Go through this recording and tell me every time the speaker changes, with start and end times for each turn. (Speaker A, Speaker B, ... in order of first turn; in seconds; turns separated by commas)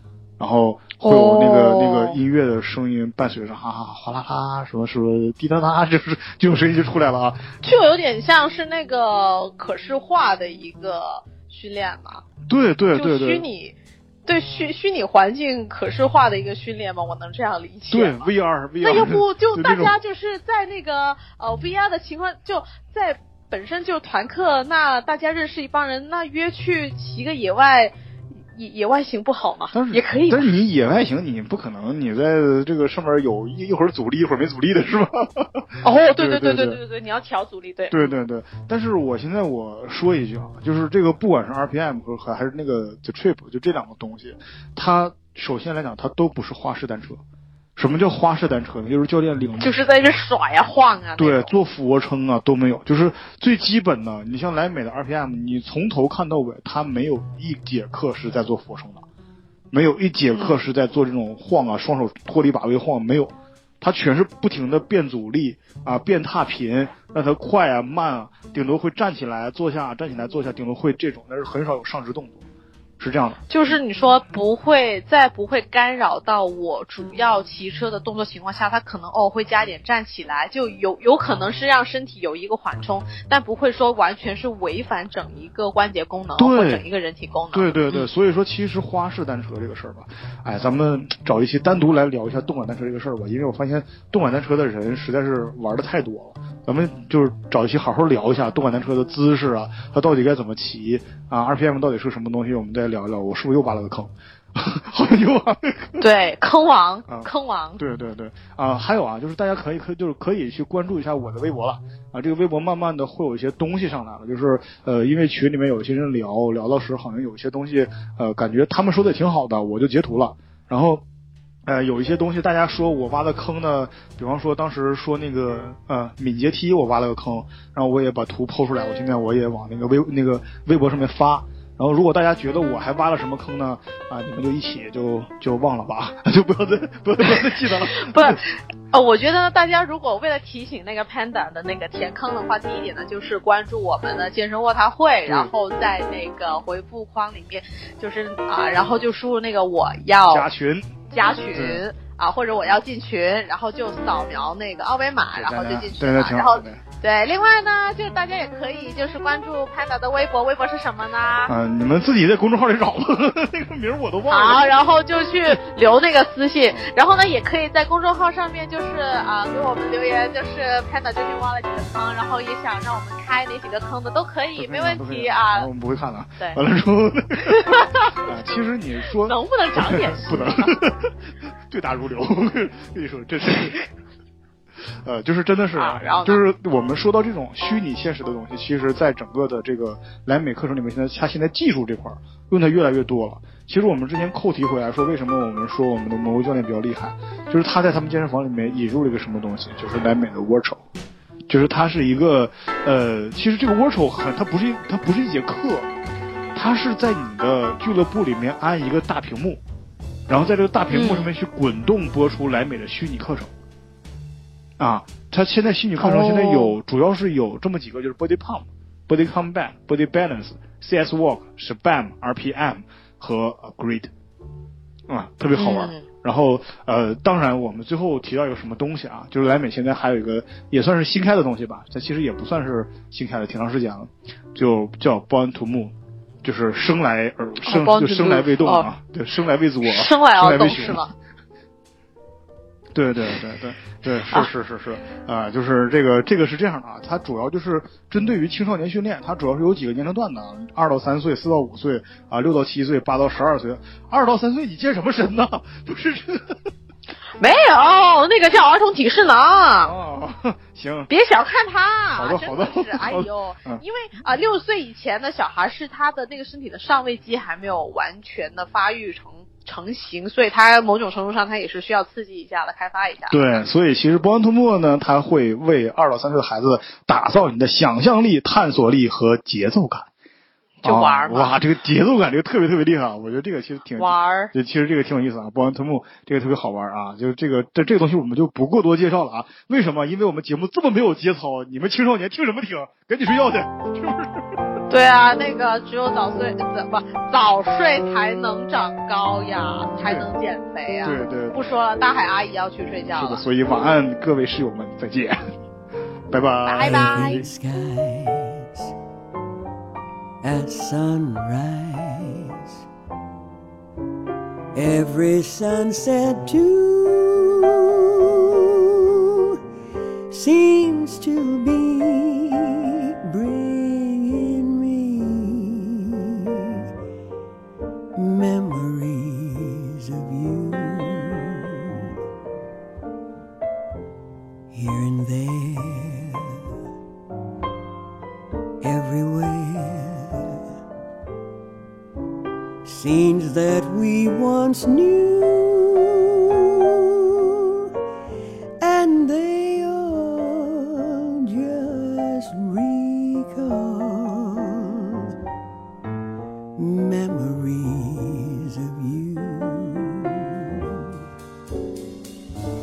Speaker A: 0.4-7.6, Speaker B: 1.0-2.2, Speaker B: 7.6-12.2, Speaker A: 12.5-13.4, Speaker B: 12.9-18.3, Speaker A: 17.9-19.9, Speaker B: 18.8-27.9, Speaker B: 28.5-30.4, Speaker A: 29.7-36.8, Speaker B: 35.8-38.1, Speaker A: 37.9-47.2, Speaker A: 47.8-49.7, Speaker B: 49.6-51.5, Speaker A: 51.2-59.0, Speaker A: 59.7-72.4, Speaker B: 60.3-60.6, Speaker A: 73.0-73.8, Speaker B: 73.5-88.1, Speaker A: 86.4-86.8, Speaker A: 87.5-106.0, Speaker B: 106.0-107.8, Speaker A: 107.1-121.0, Speaker A: 121.7-138.4, Speaker B: 137.9-150.5, Speaker A: 150.3-150.9, Speaker B: 151.1-161.5, Speaker A: 151.5-151.8, Speaker A: 155.3-156.8, Speaker A: 161.5-164.7, Speaker B: 164.3-175.7, Speaker A: 174.6-181.2, Speaker B: 177.4-178.1, Speaker B: 179.2-180.8, Speaker A: 181.7-183.8, Speaker A: 185.0-200.8, Speaker B: 185.8-186.4, Speaker A: 201.5-205.9, Speaker A: 206.5-209.6, Speaker A: 210.3-213.5, Speaker B: 210.9-211.3, Speaker A: 214.8-224.1, Speaker B: 216.0-216.8, Speaker A: 225.1-241.0, Speaker B: 225.5-226.1, Speaker B: 237.6-238.9, Speaker B: 239.8-241.1, Speaker A: 242.9-256.6, Speaker B: 257.4-259.9, Speaker A: 259.8-261.1, Speaker B: 261.1-273.4, Speaker A: 262.2-263.8, Speaker A: 273.3-280.1, Speaker B: 280.8-281.6, Speaker A: 280.8-294.4, Speaker B: 284.0-284.5, Speaker B: 294.9-303.4, Speaker A: 300.0-300.3, Speaker A: 301.0-301.6, Speaker A: 303.1-305.6, Speaker A: 306.3-307.4, Speaker B: 306.6-307.4, Speaker C: 306.9-308.9, Speaker C: 310.4-312.6, Speaker C: 314.7-318.8, Speaker C: 320.3-326.8, Speaker C: 328.1-332.0, Speaker C: 334.7-336.6, Speaker C: 338.8-340.6, Speaker C: 342.8-347.6, Speaker C: 348.8-355.2, Speaker C: 356.8-361.1